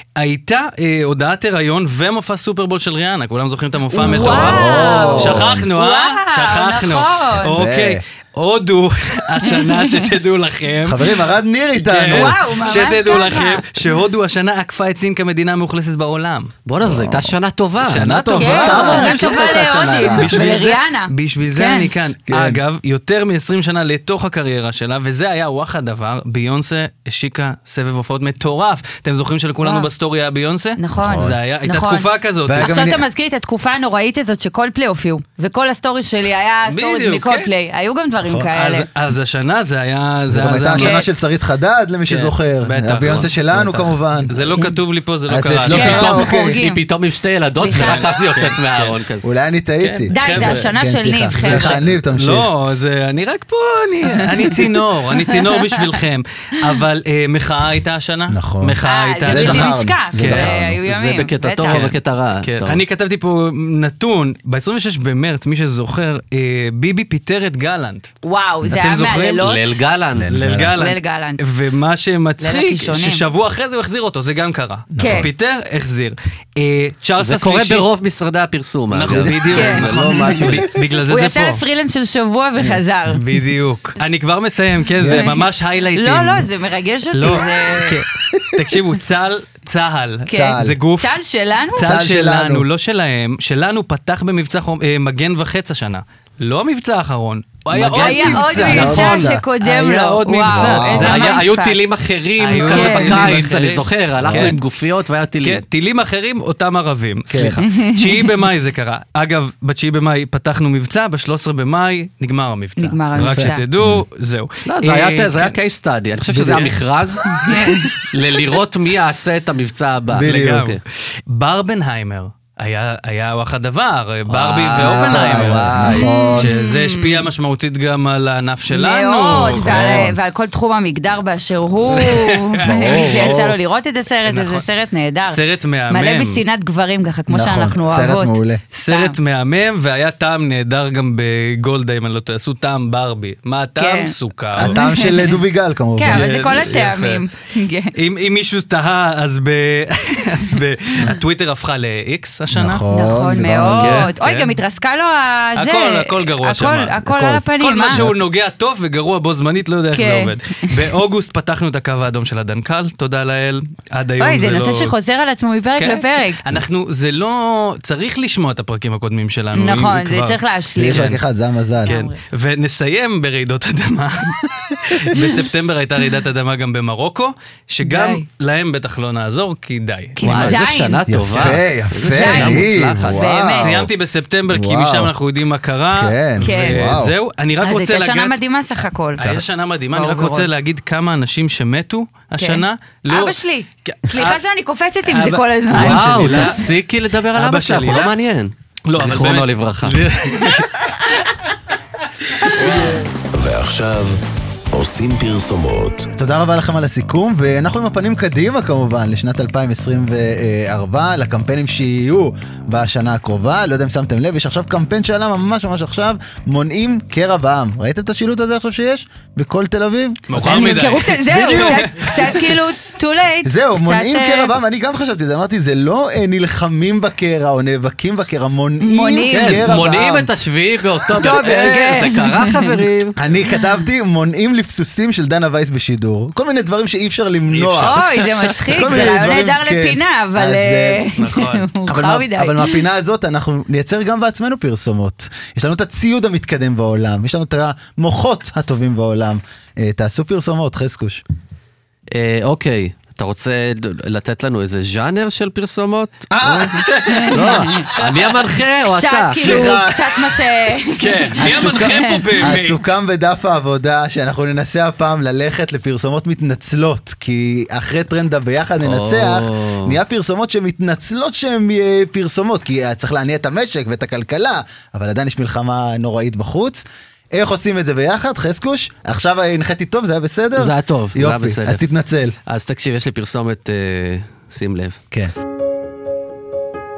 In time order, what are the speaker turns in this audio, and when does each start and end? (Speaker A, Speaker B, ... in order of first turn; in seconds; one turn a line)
Speaker A: 0.1-11.2
Speaker B: 3.9-7.6
Speaker C: 4.0-5.7
Speaker C: 7.5-8.0
Speaker B: 9.4-10.0
Speaker C: 10.8-12.7
Speaker A: 11.8-16.5
Speaker B: 12.1-13.6
Speaker D: 16.6-20.2
Speaker C: 16.8-17.3
Speaker A: 17.8-19.5
Speaker C: 17.9-20.7
Speaker B: 18.3-21.9
Speaker A: 20.1-32.8
Speaker C: 22.3-22.6
Speaker B: 29.6-29.9
Speaker B: 30.8-38.9
Speaker C: 31.0-31.4
Speaker C: 32.4-33.0
Speaker A: 36.6-37.5
Speaker C: 38.2-38.5
Speaker A: 38.5-41.0
Speaker C: 40.3-44.3
Speaker B: 40.7-41.1
Speaker A: 42.1-46.2
Speaker C: 45.3-46.6
Speaker B: 45.7-46.8
Speaker D: 46.0-49.2
Speaker B: 47.5-48.1
Speaker A: 47.7-49.0
Speaker C: 49.2-52.5
Speaker A: 49.8-50.7
Speaker B: 50.1-51.8
Speaker A: 51.3-60.5
Speaker C: 58.3-60.8
Speaker B: 58.8-61.9
Speaker D: 60.9-62.8
Speaker A: 61.6-68.1
Speaker B: 68.2-69.8
Speaker A: 68.7-69.4
Speaker D: 69.4-70.4
Speaker C: 70.2-70.8
Speaker A: 70.3-77.8
Speaker B: 70.7-71.4
Speaker B: 72.4-73.2
Speaker C: 74.9-75.3
Speaker B: 75.0-75.3
Speaker D: 77.2-80.7
Speaker A: 78.9-81.6
Speaker B: 79.5-80.5
Speaker C: 80.2-80.7
Speaker B: 81.1-83.2
Speaker A: 83.1-86.5
Speaker C: 85.0-85.3
Speaker B: 85.0-88.0
Speaker A: 87.1-91.2
Speaker C: 88.3-88.6
Speaker B: 90.3-92.0
Speaker C: 90.3-90.8
Speaker A: 91.7-101.4
Speaker C: 91.8-92.7
Speaker D: 97.7-99.3
Speaker B: 97.9-101.8
Speaker C: 98.6-99.4
Speaker C: 100.5-101.2
Speaker D: 100.9-105.6
Speaker A: 102.4-104.6
Speaker B: 102.6-103.3
Speaker C: 104.2-104.6
Speaker A: 105.4-115.5
Speaker C: 107.3-107.6
Speaker B: 107.6-108.2
Speaker B: 112.8-113.6
Speaker C: 113.2-114.0
Speaker D: 114.7-120.8
Speaker C: 116.3-116.7
Speaker A: 116.3-116.8
Speaker A: 117.3-117.6
Speaker B: 117.5-117.9
Speaker C: 120.1-120.7
Speaker A: 120.2-130.1
Speaker D: 124.3-126.1
Speaker C: 124.8-126.5
Speaker B: 125.9-127.3
Speaker B: 128.7-139.2
Speaker C: 129.3-130.1
Speaker A: 131.9-133.5
Speaker C: 132.6-133.6
Speaker A: 134.2-134.6
Speaker A: 135.2-136.4
Speaker C: 137.3-138.6
Speaker A: 138.7-145.1
Speaker B: 143.8-145.4
Speaker C: 144.6-146.3
Speaker B: 146.0-147.9
Speaker A: 146.1-147.2
Speaker A: 147.9-152.8
Speaker C: 152.5-154.1
Speaker B: 152.9-158.0
Speaker A: 153.7-154.6
Speaker A: 155.6-164.9
Speaker C: 157.1-158.2
Speaker B: 159.9-160.9
Speaker B: 164.2-166.4
Speaker A: 165.8-171.2
Speaker B: 169.5-171.2
Speaker C: 170.8-171.9
Speaker B: 171.8-172.2
Speaker A: 171.8-180.5
Speaker B: 177.8-178.2
Speaker B: 180.2-181.0
Speaker D: 180.2-183.2
Speaker C: 181.1-183.9
Speaker B: 182.1-183.7
Speaker A: 183.5-188.4
Speaker C: 184.5-185.1
Speaker C: 185.9-187.1
Speaker B: 186.4-186.9
Speaker B: 187.6-189.3
Speaker A: 189.2-194.4
Speaker B: 189.9-190.5
Speaker B: 192.4-196.6
Speaker A: 195.0-196.7
Speaker D: 195.7-200.0
Speaker A: 197.3-198.1
Speaker A: 198.8-201.0
Speaker A: 202.4-203.0
Speaker E: 203.3-204.2
Speaker E: 204.7-206.1
Speaker C: 206.2-222.1
Speaker A: 220.3-222.4
Speaker B: 220.4-224.5
Speaker C: 223.4-230.3
Speaker B: 228.8-229.8
Speaker D: 229.3-233.2
Speaker B: 231.1-232.7
Speaker C: 233.2-238.0
Speaker A: 237.5-238.3
Speaker B: 237.8-242.8
Speaker C: 238.7-241.0
Speaker A: 241.1-241.7
Speaker C: 241.9-251.2
Speaker D: 252.1-259.7
Speaker C: 256.3-257.6
Speaker A: 256.8-257.4
Speaker B: 257.1-257.9
Speaker B: 258.9-262.5
Speaker C: 259.4-260.2
Speaker A: 261.0-262.9
Speaker C: 261.4-282.3
Speaker D: 268.8-270.0
Speaker D: 280.6-281.8
Speaker D: 282.5-285.0